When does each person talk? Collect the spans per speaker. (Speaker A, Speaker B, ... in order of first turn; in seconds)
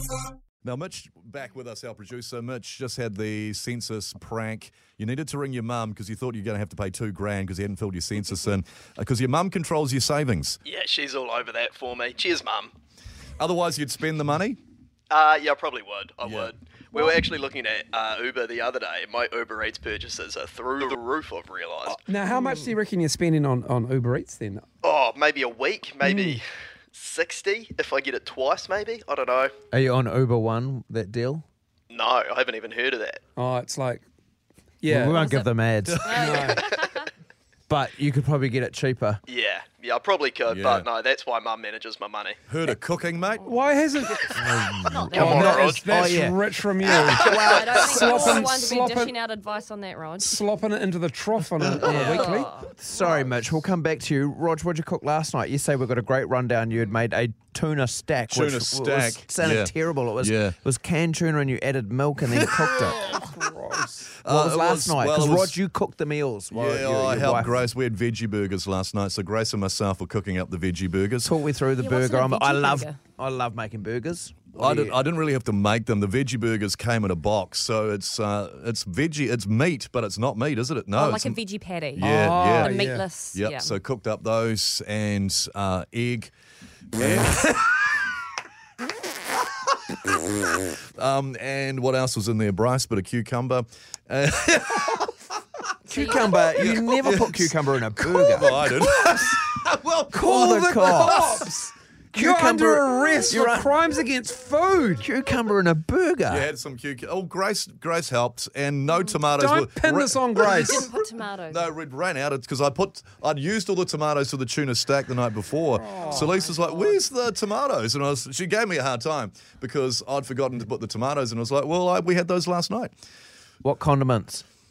Speaker A: 0.6-10.6, 13.4-14.6, 16.2-16.5, 40.5-40.9, 42.5-43.6, 58.3-60.6, 62.3-62.9, 64.2-65.6, 66.5-71.3, 74.5-81.4, 81.9-86.3, 86.9-87.8, 91.0-95.1, 96.6-100.1, 101.0-101.4, 106.3-122.9
Speaker B: 10.7-12.7, 15.1-22.0, 24.8-29.5, 31.9-33.2, 39.3-42.4, 45.1-46.1, 46.9-48.4
Speaker C: 21.9-24.6, 26.0-26.4, 33.4-34.0, 34.8-35.3, 36.1-36.6, 43.5-44.3, 45.1-49.1, 50.2-52.5, 63.0-64.1, 82.0-83.1, 100.2-105.1, 109.4-110.9, 115.8-116.8
Speaker D: 29.7-31.4, 34.9-36.1, 37.7-39.2, 44.4-46.4, 51.8-63.1, 64.3-67.6, 71.2-75.0, 87.0-87.2, 95.9-98.7, 100.1-101.4, 102.1-103.7, 105.0-106.5, 123.6-124.5
Speaker E: 35.1-35.5, 36.0-37.1, 44.9-45.7, 47.1-50.4, 51.8-52.7, 71.8-73.0, 80.9-83.8, 95.9-96.8, 108.9-109.1, 110.4-111.7